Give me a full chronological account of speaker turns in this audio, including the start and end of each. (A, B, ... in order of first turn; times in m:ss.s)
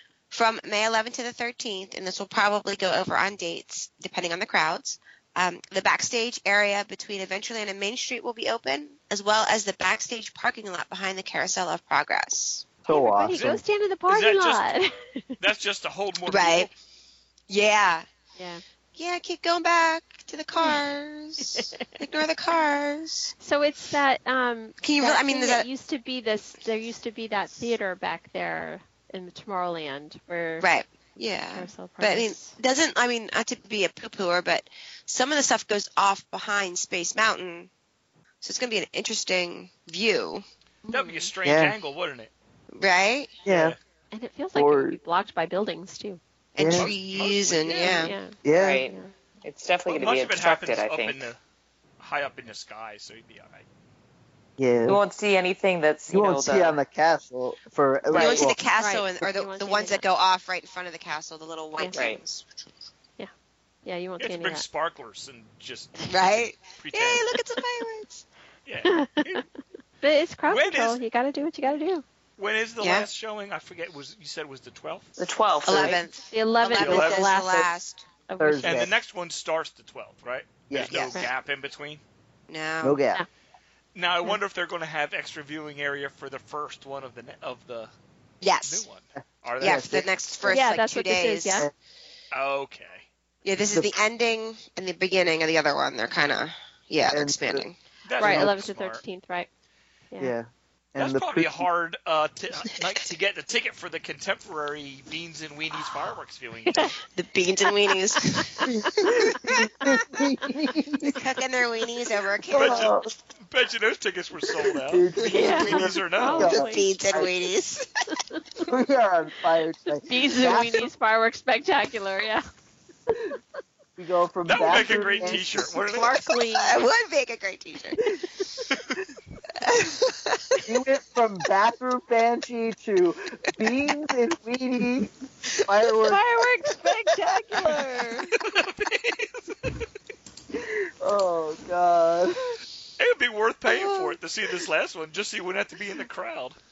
0:00.3-0:12.7 A
0:12.8-0:13.6 B
0:12.9-0:15.4 C
0:14.1-0:14.7 D
0:15.4-0:16.7 D
0:16.2-0:16.7 A
0:17.5-0:18.1 A
0:18.4-0:18.6 C
0:19.0-0:23.3 A
0:21.4-0:21.8 C
0:23.4-0:30.7 C
0:24.8-0:25.7 A
0:30.6-0:37.7 A
0:31.5-0:32.6 C
0:38.4-0:40.4 A
0:40.9-0:41.3 C
0:40.9-0:42.3 D
0:41.4-0:41.7 B
0:42.7-0:43.4 A
0:43.4-0:43.8 B
0:43.4-0:43.8 D
0:44.1-0:46.2 C
0:44.5-0:45.0 B
0:46.5-0:48.1 A
0:46.6-0:46.9 B
0:46.7-0:48.1 D
0:47.8-0:49.1 C
0:48.4-0:48.8 B
0:48.5-0:51.3 E
0:49.9-0:51.4 D
0:52.0-0:53.6 D
0:54.6-0:55.0 B
0:54.8-0:56.8 E
0:56.1-0:58.6 B
0:58.1-0:58.4 E
0:58.1-1:02.4 A
0:58.8-1:00.0 C
1:01.9-1:02.2 E
1:03.8-1:04.6 C
1:04.2-1:07.2 D
1:06.1-1:08.2 A
1:08.6-1:09.4 D
1:08.8-1:09.4 C
1:10.0-1:12.0 C
1:10.4-1:11.0 D
1:12.4-1:15.2 D
1:12.8-1:13.0 A
1:15.2-1:16.0 E
1:15.6-1:18.0 A
1:16.2-1:17.7 C
1:16.8-1:17.2 D
1:16.8-1:17.7 B
1:18.3-1:18.9 C
1:18.4-1:18.9 B
1:18.6-1:22.0 D
1:20.7-1:21.1 B
1:20.9-1:21.2 A
1:22.5-1:23.0 A
1:22.8-1:23.2 B
1:23.9-1:27.9 D
1:28.4-1:28.8 A
1:28.6-1:30.0 D
1:29.2-1:30.6 B
1:29.6-1:31.6 A
1:30.5-1:31.7 C
1:32.3-1:33.0 D
1:33.4-1:37.8 A
1:37.1-1:37.6 B
1:38.0-1:39.0 D
1:38.2-1:39.5 C
1:38.2-1:38.5 B
1:40.2-1:41.7 B
1:41.0-1:46.9 D
1:47.1-1:49.4 A
1:48.3-1:49.6 C
1:48.7-1:51.2 B
1:51.0-1:52.9 A
1:52.5-1:53.1 B
1:52.5-1:56.6 D
1:54.8-1:57.3 B
1:55.3-1:56.9 C
1:56.4-1:57.9 A
1:58.1-1:58.6 C
1:58.7-2:00.9 B
2:00.0-2:02.4 C
2:03.1-2:03.4 C
2:04.0-2:05.8 B
2:04.5-2:06.2 D
2:04.6-2:06.8 C
2:06.5-2:08.1 A
2:08.7-2:09.0 D
2:09.6-2:10.6 A
2:10.6-2:15.1 B
2:15.6-2:16.2 B
2:16.0-2:18.3 C
2:17.3-2:17.8 B
2:18.4-2:19.8 D
2:20.5-2:22.6 B
2:23.0-2:26.6 D
2:23.7-2:24.0 A